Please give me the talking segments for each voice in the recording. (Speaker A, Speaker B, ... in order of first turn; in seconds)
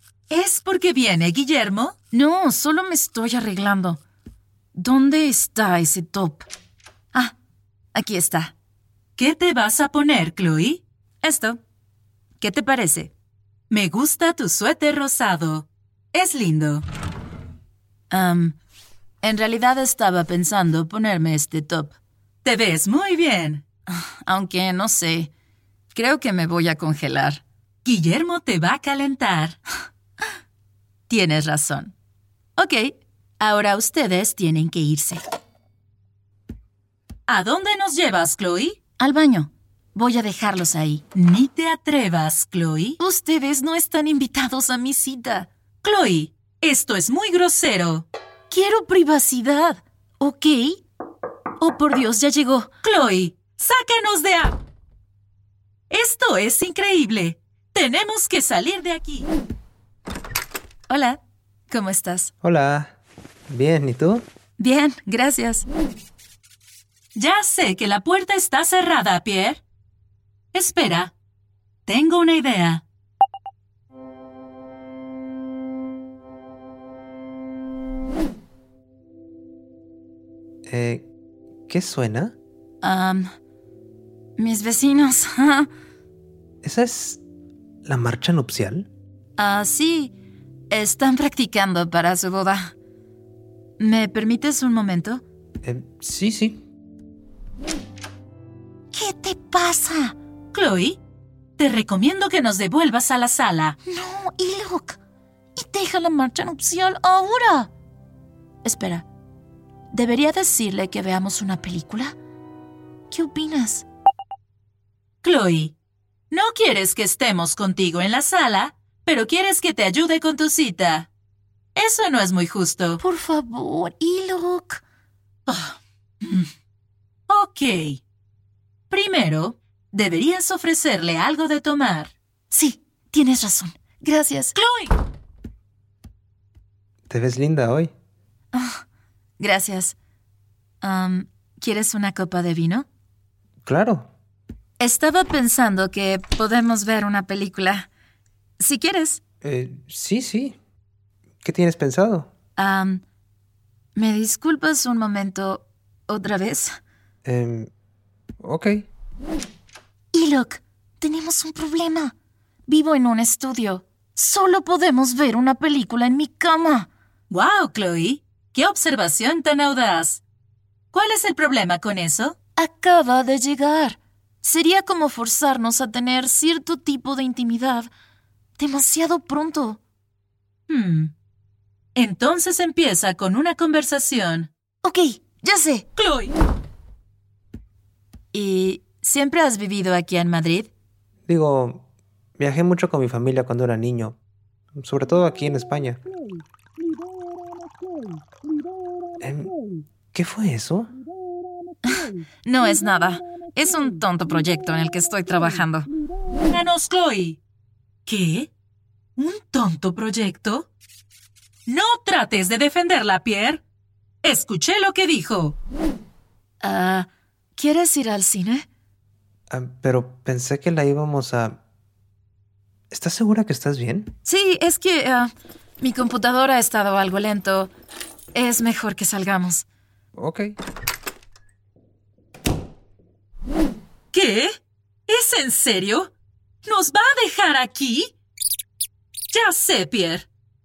Speaker A: 0.3-2.0, 9.2-11.6, 12.4-13.1, 13.7-16.8, 20.7-21.0, 22.4-23.6, 27.8-29.6, 37.3-38.8, 41.1-43.0, 45.8-48.1, 52.8-54.6, 55.9-59.3, 67.1-69.6, 70.5-71.1, 71.8-72.8, 100.5-101.0, 101.6-103.8, 115.2-115.7, 116.3-121.1, 121.7-123.0, 125.5-126.5, 127.3-128.0, 128.9-132.1, 134.5-134.9, 167.3-170.2, 170.9-172.4, 180.7-181.1, 181.9-184.5, 185.9-186.3, 206.4-207.4, 208.1-208.5, 209.2-210.7, 211.7-213.6, 214.2-215.6, 234.1-234.5, 235.1-236.1, 236.6-238.1, 239.3-240.3
Speaker B: 2.0-4.0, 4.7-6.5, 7.9-8.5, 18.1-18.5, 19.2-21.9, 23.9-25.3, 25.9-27.4, 31.1-31.9, 32.5-35.2, 39.0-41.1, 43.0-45.5, 48.5-50.8, 51.6-52.8, 60.9-62.3, 64.6-65.7, 82.8-83.3, 84.4-85.7, 89.4-90.1, 90.7-92.7, 93.8-95.2, 98.9-100.1, 103.8-105.0, 105.5-107.7, 108.6-109.0, 109.9-112.1, 113.1-113.8, 123.0-124.8, 132.5-134.5, 138.5-138.8, 139.4-139.9, 140.8-142.8, 144.8-147.9, 148.6-149.2, 152.6-153.0, 153.9-156.7, 160.1-162.1, 162.7-166.9, 172.6-177.9, 178.6-179.8, 184.8-185.9, 188.3-190.7, 201.8-205.9, 216.6-218.7, 224.2-227.7, 228.3-229.6
Speaker C: 62.4-62.9, 63.5-64.2, 80.7-81.1, 81.7-82.3, 86.6-87.2, 87.8-88.9, 95.6-96.6, 137.1-137.9, 143.6-144.1, 149.4-150.6, 151.4-152.3, 157.2-157.7, 158.4-158.8, 191.3-191.8, 192.4-194.2, 194.7-196.0, 199.2-199.5, 200.1-200.9, 219.5-221.6, 222.9-224.1, 230.2-230.6